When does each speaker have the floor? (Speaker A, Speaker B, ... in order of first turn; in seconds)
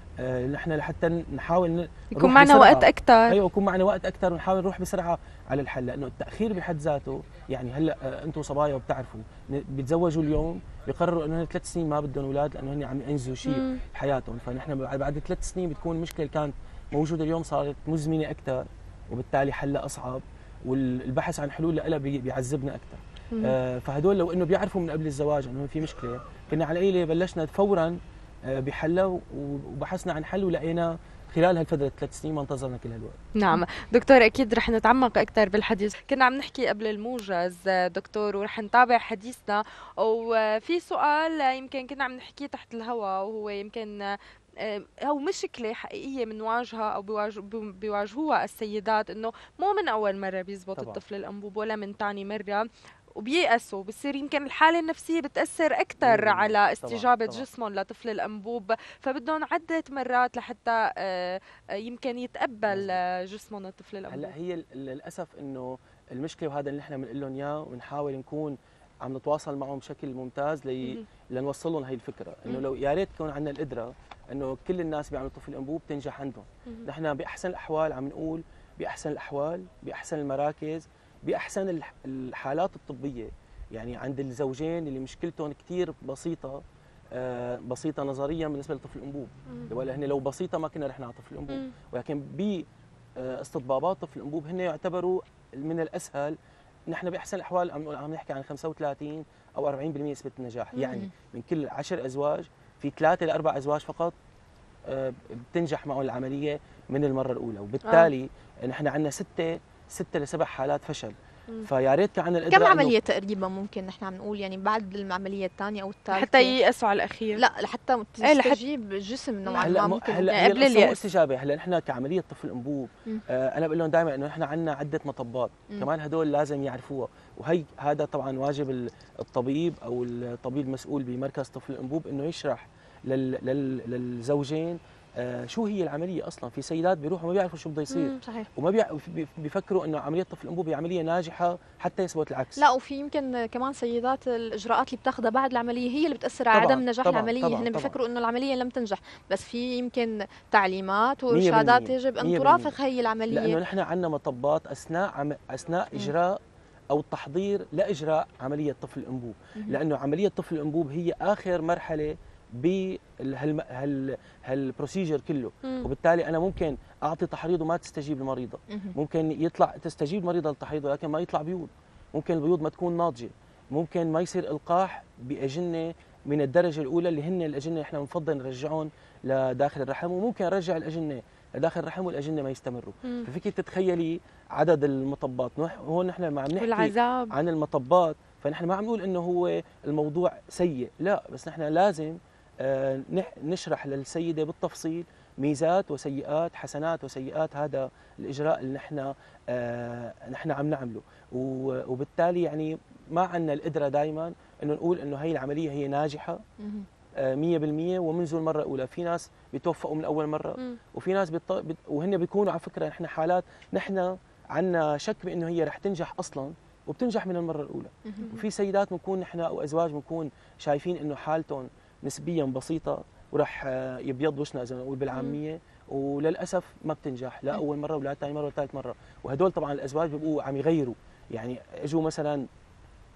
Speaker A: 0.2-28.0, 28.5-33.2, 56.0-57.5, 62.7-63.0, 64.1-86.6, 87.1-92.6, 93.2-96.3, 96.9-104.1, 104.9-112.9, 119.6-142.6, 146.5-148.0, 151.3-152.7, 153.3-156.4, 156.9-206.4, 207.2-232.4
Speaker B: 2.1-3.4, 13.4-13.8, 33.4-52.6, 53.2-64.3, 107.8-108.1, 116.1-117.4, 118.2-118.6, 119.5-119.8, 120.3-121.0, 165.6-165.9, 186.6-187.3, 225.1-225.4
Speaker C: 100.8-101.1, 112.5-116.6, 117.3-120.3, 138.0-138.5, 142.6-153.6, 168.7-168.9, 206.6-206.9, 218.1-218.3